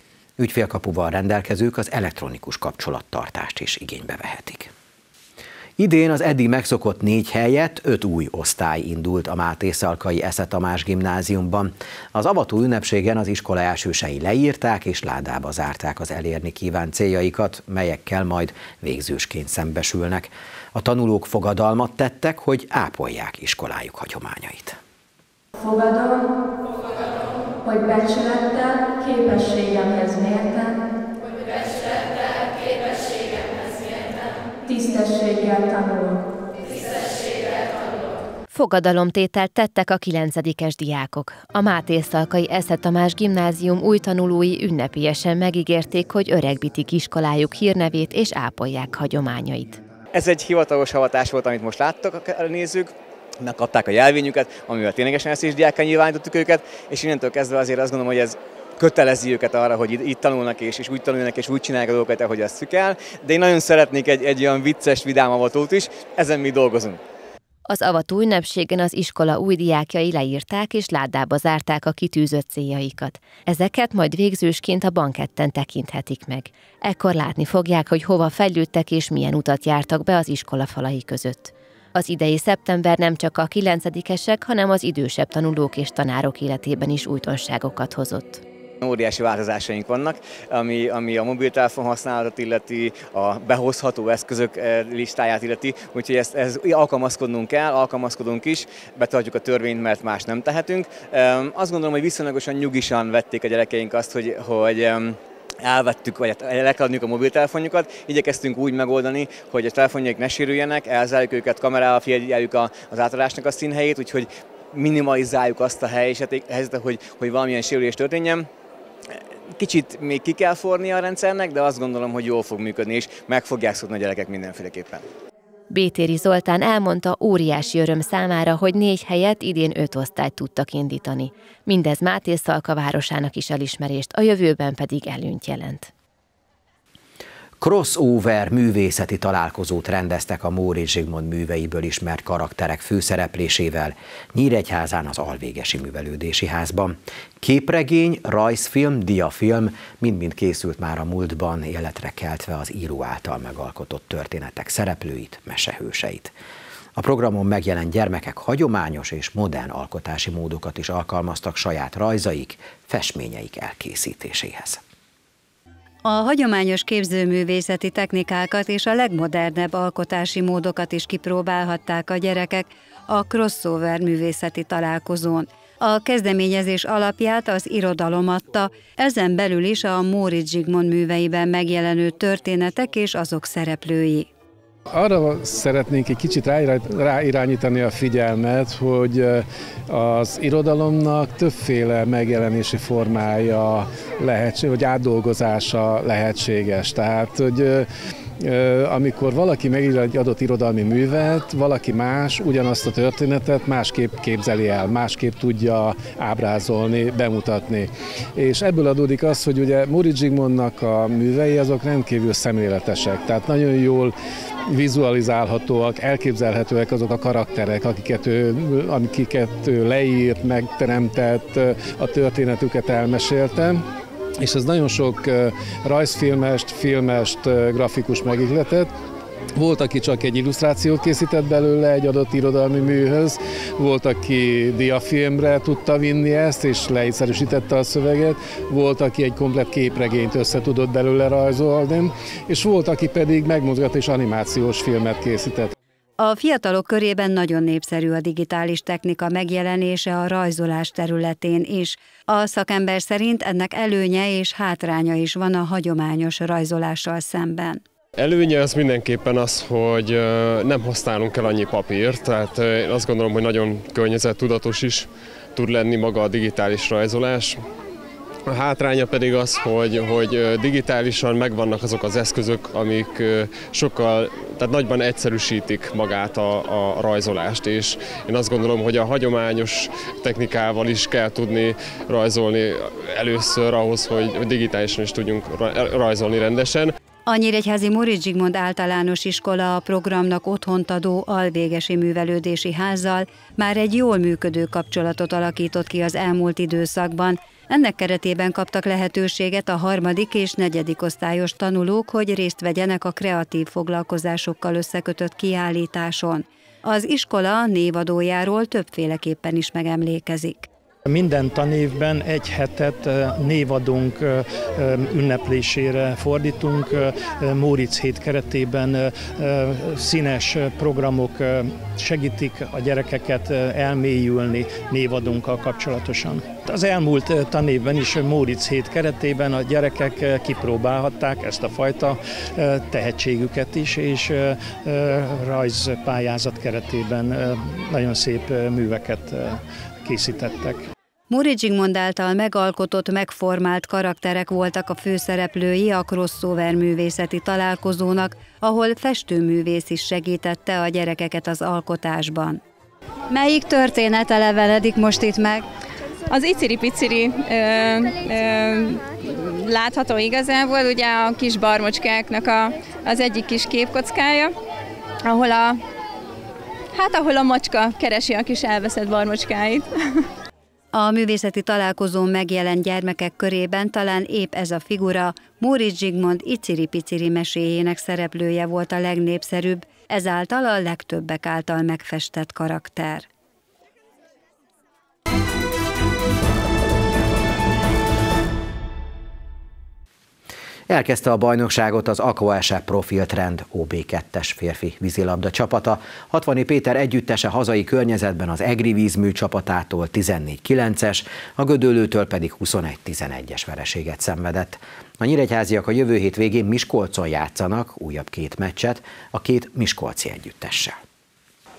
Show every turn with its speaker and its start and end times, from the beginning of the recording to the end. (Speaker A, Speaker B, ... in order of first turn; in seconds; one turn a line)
Speaker A: 0.4-4.7
Speaker A: 5.8-24.8
Speaker B: 25.6-26.2
Speaker B: 27.6-30.7
Speaker B: 34.7-36.1
Speaker C: 38.5-49.8
Speaker D: 50.1-67.0
Speaker C: 67.7-88.4
Speaker D: 88.8-118.5
Speaker D: 119.5-125.1
Speaker C: 125.7-135.9
Speaker A: 137.6-156.3
Speaker A: 156.9-164.8
Speaker E: 166.0-184.3
Speaker F: 184.9-197.9
Speaker F: 198.4-214.1
Speaker F: 214.7-223.8
Speaker F: 224.4-228.9
Speaker F: 229.6-245.7
Speaker E: 246.2-257.8
Speaker G: 258.1-267.6
Speaker G: 268.4-286.9
Speaker E: 287.2-310.7
Speaker H: 311.1-340.9
Speaker E: 341.3-352.6
Speaker E: 353.3-355.6
Speaker I: 356.3-364.5
Speaker I: 365.2-365.8
Speaker I: 366.9-370.2
Speaker E: 370.9-383.3
Speaker A: 390.9-411.0